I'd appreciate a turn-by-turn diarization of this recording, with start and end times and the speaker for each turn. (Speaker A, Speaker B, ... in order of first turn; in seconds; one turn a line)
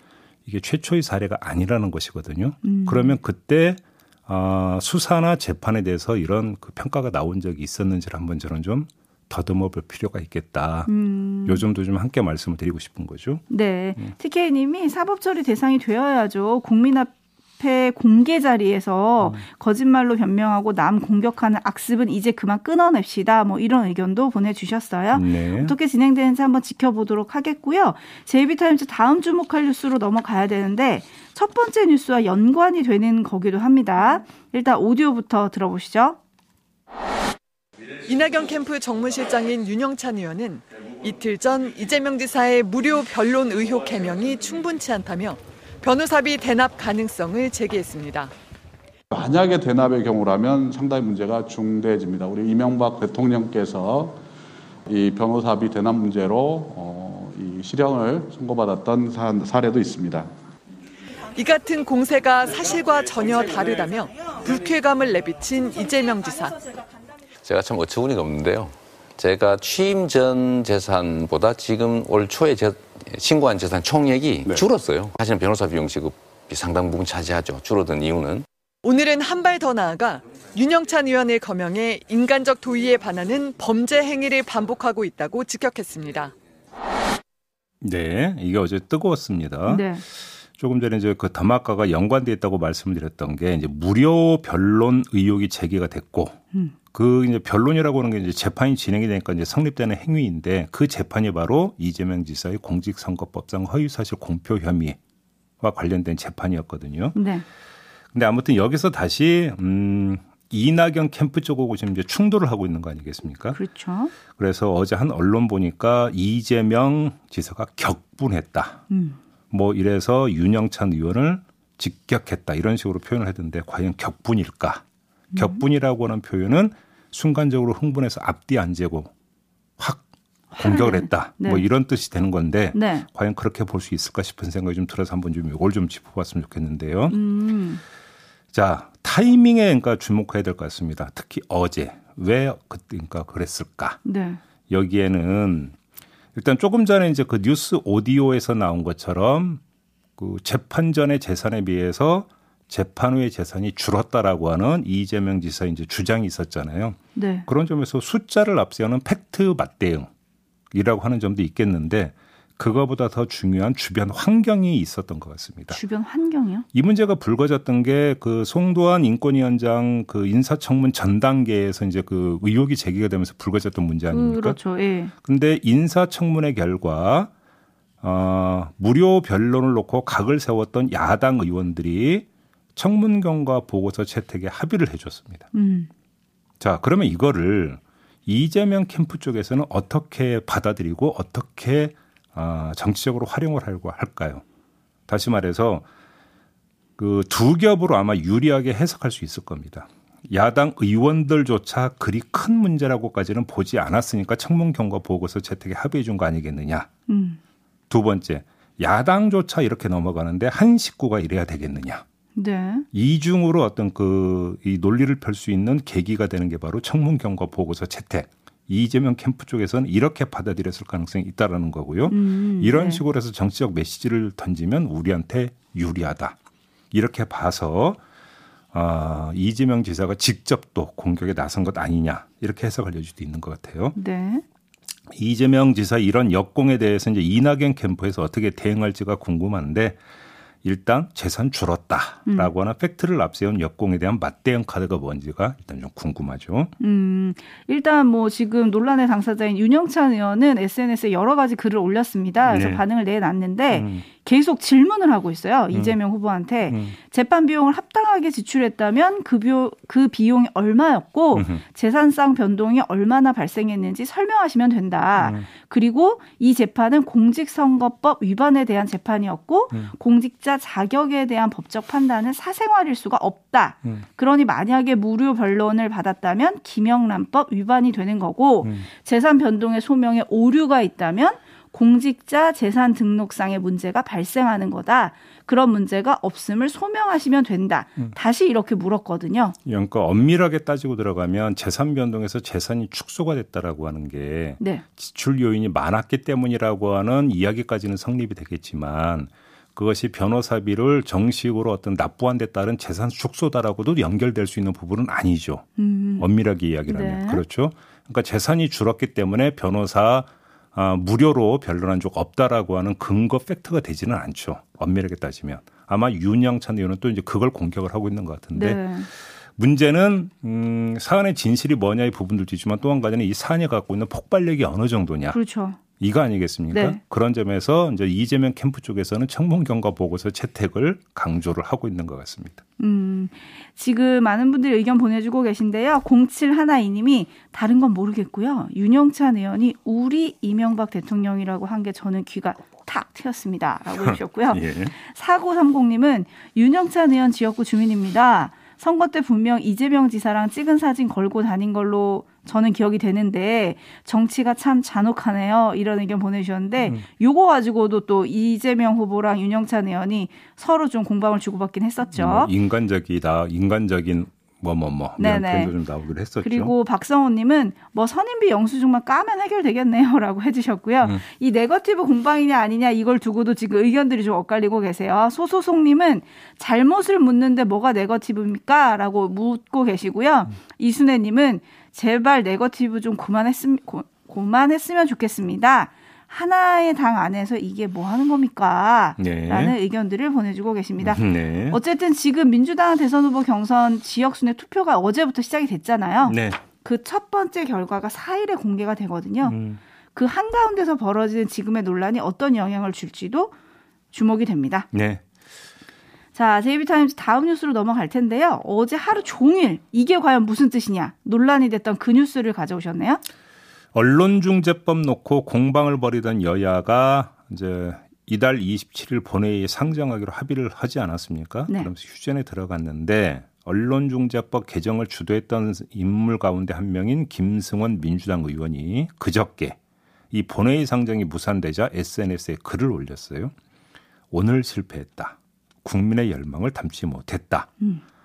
Speaker A: 0.5-10.9
Speaker B: 2.6-3.2
Speaker B: 10.9-11.6
Speaker A: 11.4-13.4
Speaker B: 13.5-36.2
Speaker A: 25.1-25.8
Speaker C: 38.1-48.3
Speaker D: 49.1-54.2
Speaker D: 54.9-60.3
Speaker C: 61.4-66.6
Speaker E: 67.4-78.5
Speaker C: 78.8-86.3
Speaker A: 87.8-96.4
Speaker B: 89.7-90.0
Speaker A: 96.9-105.0
Speaker A: 105.6-107.2
Speaker B: 107.2-107.5
Speaker A: 108.1-113.6
Speaker B: 113.5-114.1
Speaker A: 114.3-118.8
Speaker B: 118.9-119.2
Speaker A: 119.5-124.8
Speaker B: 125.3-125.6
Speaker A: 125.4-129.1
Speaker A: 129.8-130.0
Speaker B: 130.5-131.7
Speaker A: 130.6-137.2
Speaker B: 132.7-133.1
Speaker B: 137.1-137.8
Speaker A: 138.5-144.0
Speaker B: 144.0-144.4
Speaker A: 144.7-145.7
Speaker A: 146.3-149.6
Speaker A: 150.2-160.1
Speaker B: 157.2-157.5
Speaker A: 160.7-165.8
Speaker B: 165.7-166.7
Speaker A: 166.7-174.6
Speaker B: 174.1-175.1
Speaker A: 175.2-177.3
Speaker A: 178.0-185.5
Speaker B: 185.5-185.9
Speaker A: 186.6-194.4
Speaker A: 195.1-195.9
Speaker A: 197.0-206.9
Speaker B: 207.1-207.4
Speaker A: 207.9-212.0
Speaker B: 212.3-212.9
Speaker A: 212.9-226.4
Speaker B: 222.1-223.0
Speaker A: 226.9-228.0
Speaker A: 228.7-234.0
Speaker B: 234.0-234.4
Speaker A: 235.1-240.0
Speaker A: 240.6-246.7
Speaker B: 242.3-242.5
Speaker B: 246.8-289.6
Speaker A: 252.5-252.8
Speaker A: 253.7-254.1
Speaker A: 256.7-257.0
Speaker A: 261.3-261.6
Speaker A: 265.2-265.5
Speaker A: 289.6-325.4
Speaker B: 294.6-294.9
Speaker B: 305.8-306.3
Speaker B: 306.9-307.4
Speaker B: 318.5-319.1
Speaker B: 325.3-325.8
Speaker A: 326.0-332.6
Speaker B: 326.7-327.0
Speaker B: 332.8-362.5
Speaker A: 343.9-344.9
Speaker A: 362.1-366.7
Speaker B: 365.2-365.8
Speaker B: 366.4-399.6
Speaker A: 389.2-389.8
Speaker A: 391.0-391.8
Speaker A: 396.2-396.6
Speaker A: 399.4-399.8
Speaker B: 400.1-403.5
Speaker B: 404.1-404.9
Speaker A: 404.9-405.2
Speaker B: 406.3-413.2
Speaker A: 413.9-429.8
Speaker A: 430.3-433.5
Speaker A: 434.3-437.7